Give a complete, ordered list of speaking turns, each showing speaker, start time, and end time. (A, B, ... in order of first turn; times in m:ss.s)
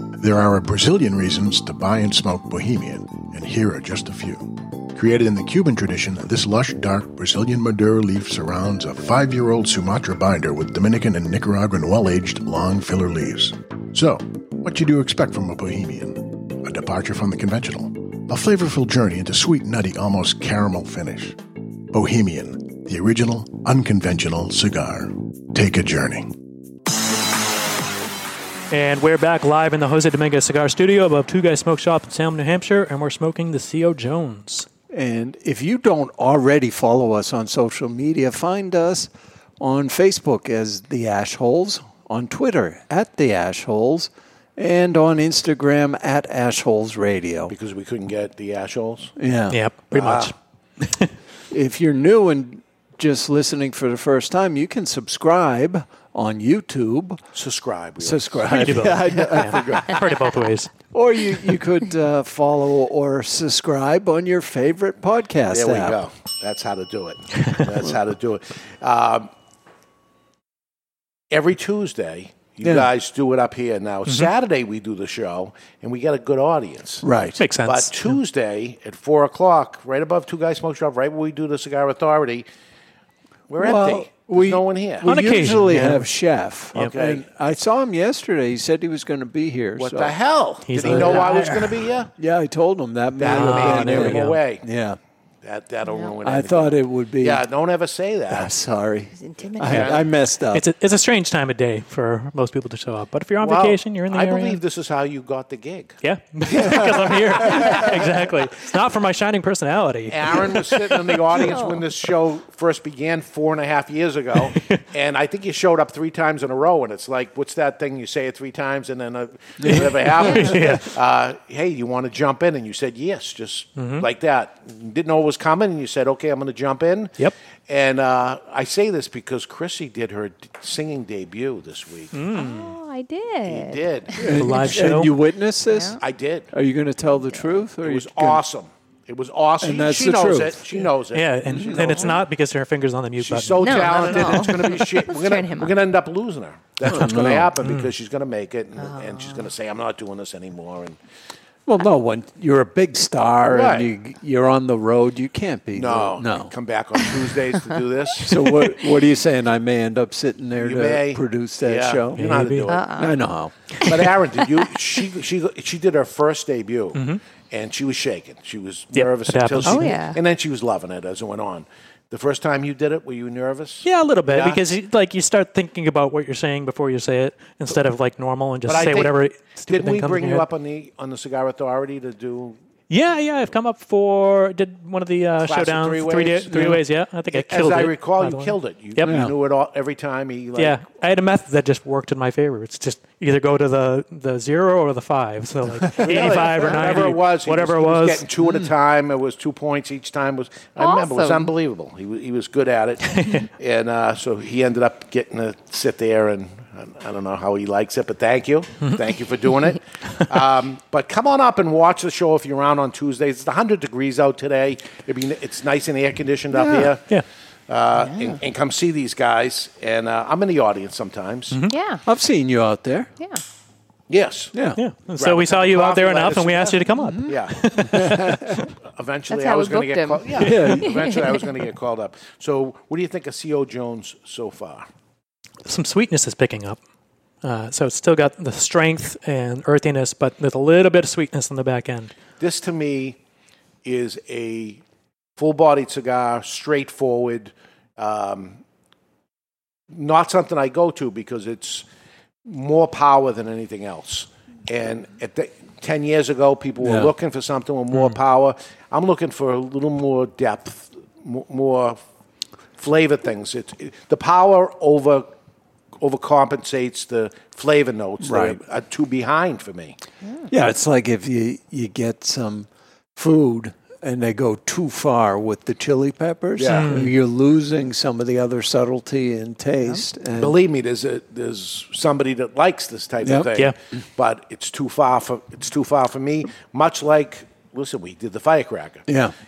0:00.2-0:21.4 A
0:21.9-0:26.4 A
0:28.7-0:34.7 B
0:34.9-0:47.5 C
0:47.5-0:49.1 D
0:49.2-0:49.6 C
0:49.5-0:51.1 B
0:49.9-0:50.3 D
0:51.5-0:57.2 C
0:57.3-1:00.0 D
0:58.0-0:59.9 C
0:58.5-1:00.7 B
1:00.9-1:06.0 C
1:05.5-1:09.3 D
1:11.3-1:17.1 D
1:12.6-1:12.9 C
1:17.0-1:17.4 C
1:17.4-1:18.1 B
1:17.6-1:22.4 D
1:23.5-1:25.1 D
1:23.6-1:30.2 C
1:25.0-1:26.0 B
1:26.8-1:27.2 D
1:29.8-1:32.1 D
1:30.6-1:31.8 B
1:30.8-1:31.4 C
1:32.2-1:35.0 C
1:33.2-1:34.6 D
1:33.2-1:34.4 B
1:35.4-1:38.5 D
1:35.8-1:36.1 E
1:36.2-1:37.4 C
1:38.3-1:40.7 C
1:39.2-1:39.9 E
1:39.6-1:40.0 D
1:40.5-1:44.6 B
1:43.4-1:46.0 D
1:46.0-1:51.2 B
1:46.5-1:48.3 D
1:50.1-2:07.1 D
1:51.4-1:51.8 E
1:54.5-1:54.8 B
1:59.6-2:00.6 C
1:59.7-2:00.9 B
2:03.8-2:04.1 B
2:07.7-2:12.1 D
2:12.1-2:12.7 B
2:12.3-2:14.2 E
2:13.4-2:14.2 D
2:14.2-2:16.0 C
2:14.3-2:15.1 B
2:15.7-2:16.0 E
2:16.0-2:16.5 D
2:16.5-2:18.4 C
2:17.8-2:22.2 D
2:19.6-2:20.8 C
2:21.1-2:24.6 B
2:21.5-2:22.1 C
2:23.2-2:31.0 D
2:23.6-2:25.7 E
2:26.8-2:27.5 C
2:27.6-2:27.9 B
2:28.8-2:29.5 E
2:31.6-2:36.5 C
2:33.5-2:33.9 D
2:35.7-2:38.7 D
2:38.2-2:43.5 C
2:40.6-2:42.9 D
2:42.1-2:42.7 B
2:42.7-2:43.2 E
2:43.8-2:44.1 E
2:43.8-2:54.8 D
2:46.9-2:47.2 B
2:48.9-2:50.0 B
2:49.6-2:50.2 E
2:53.8-3:00.4 B
2:58.6-2:59.1 D
2:59.7-3:02.6 D
3:02.9-3:09.2 B
3:05.4-3:06.8 D
3:06.5-3:06.8 C
3:07.3-3:10.8 D
3:09.0-3:09.3 C
3:10.6-3:18.2 B
3:15.9-3:16.3 C
3:16.0-3:37.1 D
3:18.4-3:18.7 C
3:20.8-3:21.5 E
3:23.2-3:23.5 B
3:36.5-3:36.9 C
3:37.7-3:41.6 D
3:38.0-3:38.4 E
3:41.7-3:42.0 E
3:42.0-3:43.1 C
3:44.1-3:44.5 D
3:44.5-3:44.8 C
3:44.8-3:48.6 B
3:45.2-3:48.1 D
3:46.9-3:48.6 C
3:48.9-3:54.9 D
3:49.3-3:51.4 E
3:50.4-3:50.9 C
3:55.6-3:56.8 B
3:57.4-4:02.1 B
4:02.4-4:03.2 D
4:03.8-4:04.8 D
4:05.4-4:08.6 D
4:09.9-4:11.9 D
4:12.4-4:22.0 D
4:16.8-4:17.1 C
4:22.8-4:25.3 D
4:26.0-4:30.0 D
4:28.2-4:28.6 C
4:30.5-4:40.6 C
4:36.6-4:37.0 D
4:36.7-4:37.1 B
4:40.4-4:49.1 D
4:43.2-4:43.5 C
4:49.1-4:49.3 C